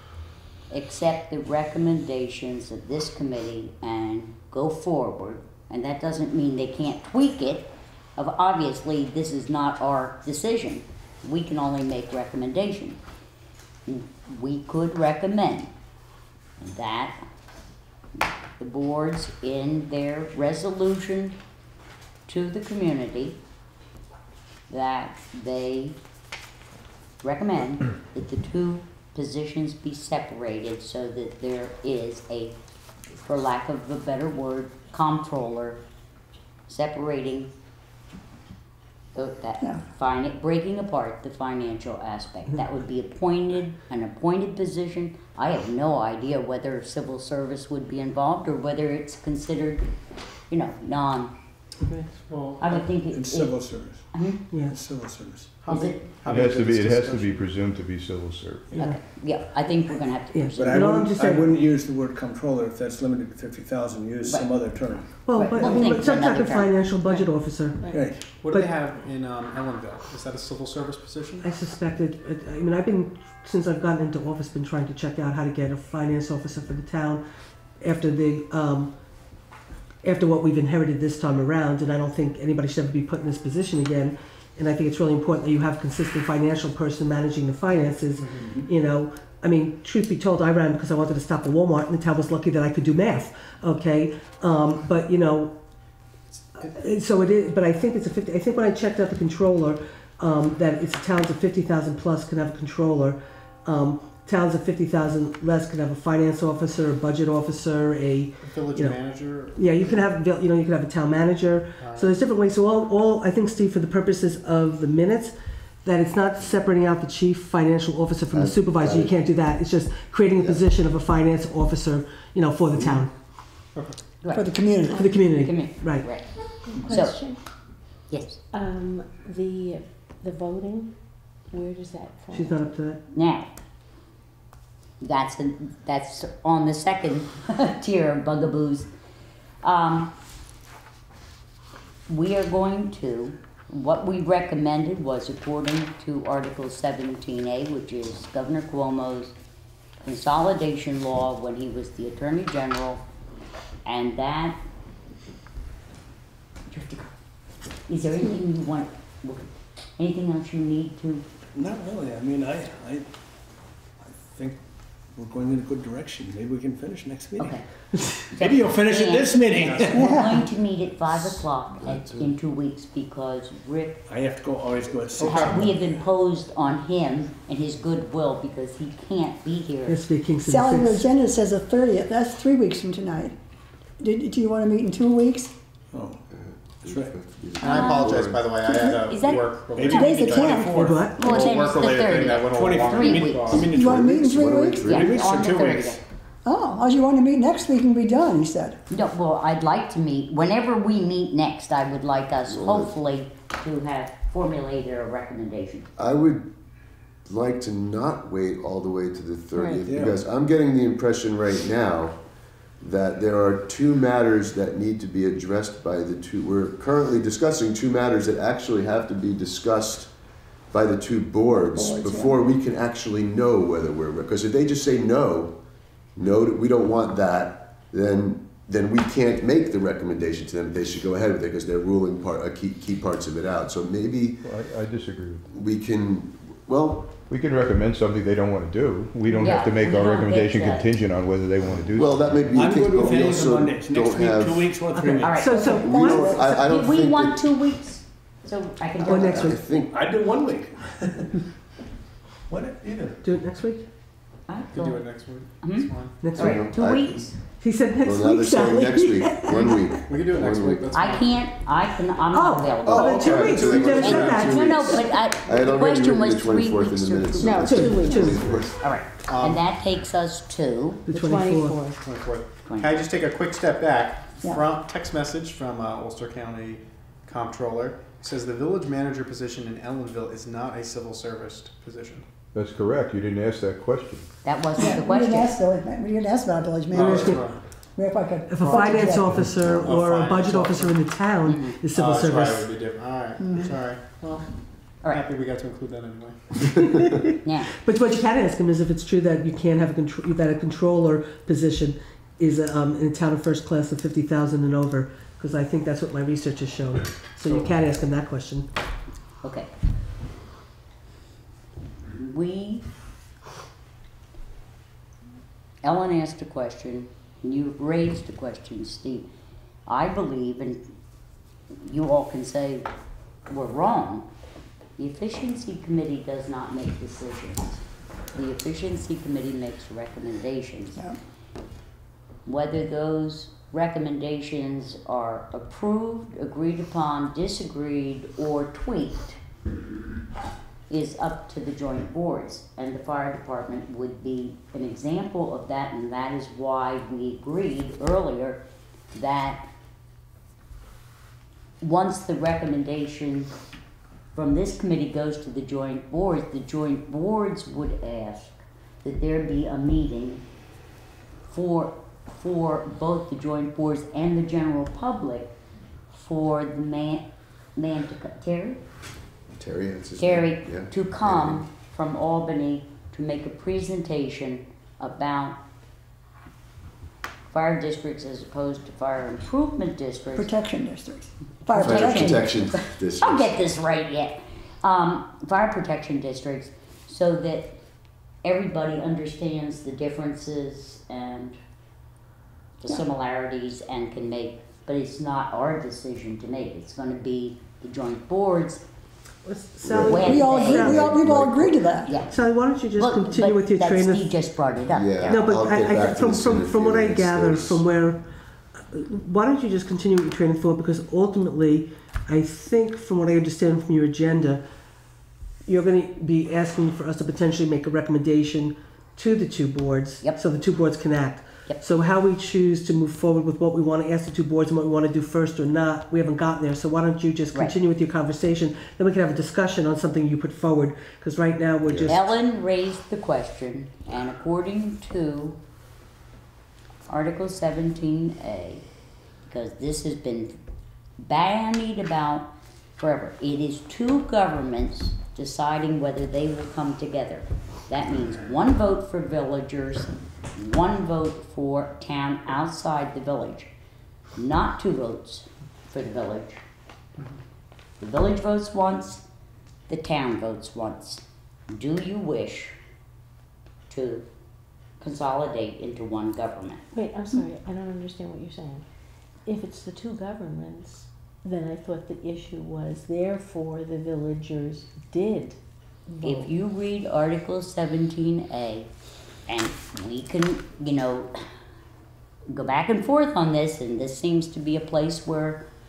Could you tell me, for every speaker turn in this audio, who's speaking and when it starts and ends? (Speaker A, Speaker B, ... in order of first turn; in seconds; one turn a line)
Speaker A: 0.7-13.0
Speaker A: 13.9-15.7
Speaker A: 16.6-17.2
Speaker A: 18.6-21.4
Speaker A: 22.3-23.4
Speaker A: 24.7-26.0
Speaker A: 27.2-32.5
Speaker A: 33.2-35.8
Speaker A: 36.7-37.5
Speaker A: 39.1-49.9
Speaker A: 50.5-51.3
Speaker B: 52.3-52.7
Speaker A: 52.6-54.4
Speaker C: 53.0-55.8
Speaker B: 55.6-57.4
Speaker A: 55.7-56.0
Speaker D: 56.2-58.8
Speaker E: 58.7-59.0
Speaker A: 58.8-61.0
Speaker E: 60.3-61.5
Speaker C: 60.5-66.1
Speaker A: 64.2-64.5
Speaker A: 65.1-66.7
Speaker E: 65.2-67.8
Speaker F: 67.0-68.1
Speaker C: 67.9-68.4
Speaker B: 68.4-71.5
Speaker E: 68.5-68.7
Speaker E: 71.4-77.2
Speaker E: 77.8-78.9
Speaker E: 80.0-95.5
Speaker B: 88.2-88.5
Speaker E: 96.6-109.0
Speaker B: 108.4-110.0
Speaker E: 109.5-123.1
Speaker B: 111.8-112.2
Speaker G: 118.3-119.1
Speaker G: 120.4-120.6
Speaker G: 122.8-123.0
Speaker B: 123.7-124.0
Speaker H: 124.3-125.1
Speaker F: 124.9-125.4
Speaker E: 124.9-126.1
Speaker A: 125.4-126.3
Speaker F: 126.6-127.4
Speaker A: 126.8-127.2
Speaker A: 128.1-128.4
Speaker F: 128.5-132.7
Speaker E: 132.3-133.0
Speaker A: 133.1-133.5
Speaker A: 135.0-138.9
Speaker A: 139.6-140.1
Speaker A: 142.1-149.3
Speaker A: 150.0-153.0
Speaker A: 153.8-154.6
Speaker A: 156.7-157.1
Speaker A: 157.9-161.2
Speaker C: 161.5-163.1
Speaker C: 164.0-167.6
Speaker A: 167.4-167.7
Speaker A: 168.3-174.0
Speaker C: 168.3-170.4
Speaker H: 169.9-170.5
Speaker G: 171.8-172.3
Speaker C: 174.1-176.0
Speaker B: 175.2-175.6
Speaker A: 175.2-180.0
Speaker E: 179.8-181.1
Speaker H: 180.4-183.3
Speaker H: 184.0-185.5
Speaker C: 185.9-186.2
Speaker G: 186.3-188.5
Speaker C: 186.8-187.2
Speaker B: 187.6-193.7
Speaker A: 187.6-193.7
Speaker C: 189.7-191.8
Speaker H: 189.8-191.0
Speaker E: 190.8-191.3
Speaker C: 192.4-196.0
Speaker H: 193.6-195.0
Speaker G: 193.7-195.3
Speaker A: 194.8-196.0
Speaker H: 196.4-198.8
Speaker A: 198.9-205.9
Speaker G: 202.5-202.9
Speaker G: 206.0-206.5
Speaker G: 207.2-212.2
Speaker F: 209.5-209.8
Speaker C: 209.9-210.2
Speaker G: 212.8-220.1
Speaker G: 220.7-225.5
Speaker H: 221.6-222.3
Speaker G: 226.2-234.4
Speaker D: 234.4-235.5
Speaker G: 235.5-237.1
Speaker D: 237.3-242.4
Speaker A: 239.4-240.9
Speaker G: 241.9-245.2
Speaker C: 242.5-245.5
Speaker A: 245.2-249.5
Speaker E: 245.3-246.4
Speaker H: 245.7-246.5
Speaker G: 245.8-247.4
Speaker G: 249.0-250.0
Speaker E: 249.1-249.6
Speaker C: 249.9-251.4
Speaker C: 252.5-253.2
Speaker E: 253.2-253.8
Speaker A: 254.5-257.3
Speaker B: 254.7-256.3
Speaker E: 256.2-256.6
Speaker G: 256.4-257.4
Speaker E: 257.6-259.8
Speaker G: 258.0-260.9
Speaker B: 260.1-261.5
Speaker A: 260.9-267.7
Speaker E: 262.3-265.1
Speaker G: 262.8-268.7
Speaker B: 262.9-264.6
Speaker F: 267.4-268.7
Speaker E: 267.6-268.5
Speaker A: 268.8-271.0
Speaker B: 269.2-269.6
Speaker F: 271.1-272.0
Speaker E: 271.1-271.8
Speaker B: 272.0-282.3
Speaker A: 272.6-273.0
Speaker D: 282.5-284.3
Speaker A: 284.4-285.6
Speaker H: 284.8-289.6
Speaker B: 286.9-287.6
Speaker E: 286.9-287.5
Speaker E: 288.5-292.7
Speaker B: 288.6-291.0
Speaker A: 291.4-291.8
Speaker B: 291.9-296.7
Speaker H: 293.4-293.7
Speaker A: 297.4-297.7
Speaker E: 297.8-308.7
Speaker A: 309.4-309.7
Speaker A: 312.1-312.9
Speaker A: 315.8-319.3
Speaker A: 319.9-320.8
Speaker A: 321.9-322.9
Speaker A: 323.5-324.3
Speaker A: 325.0-327.8
Speaker A: 328.3-331.0
Speaker A: 332.4-339.4
Speaker A: 340.9-348.6
Speaker A: 349.1-349.7
Speaker A: 351.8-353.5
Speaker A: 354.3-360.4
Speaker A: 361.5-365.5
Speaker A: 366.1-368.8
Speaker G: 369.6-371.6
Speaker A: 370.2-375.6
Speaker A: 377.5-380.5
Speaker H: 380.4-382.5
Speaker A: 381.7-387.8
Speaker G: 381.8-383.6
Speaker A: 388.4-391.6
Speaker A: 392.8-398.8
Speaker E: 399.4-401.1
Speaker G: 399.8-402.0
Speaker A: 400.0-400.9
Speaker H: 400.1-402.1
Speaker A: 402.1-402.3
Speaker E: 402.3-404.3
Speaker A: 403.0-405.4
Speaker G: 404.9-407.8
Speaker E: 405.3-408.2
Speaker E: 408.9-414.6
Speaker E: 415.7-432.2
Speaker G: 431.8-432.1
Speaker A: 432.1-435.6
Speaker A: 437.1-438.8
Speaker A: 439.5-440.6
Speaker A: 441.2-453.7
Speaker A: 454.4-456.6
Speaker A: 458.0-459.2
Speaker A: 459.9-462.8
Speaker A: 463.9-464.2
Speaker A: 465.0-466.9
Speaker F: 466.9-468.9
Speaker F: 469.4-476.5
Speaker A: 476.2-478.9
Speaker A: 479.5-481.3
Speaker A: 482.5-485.6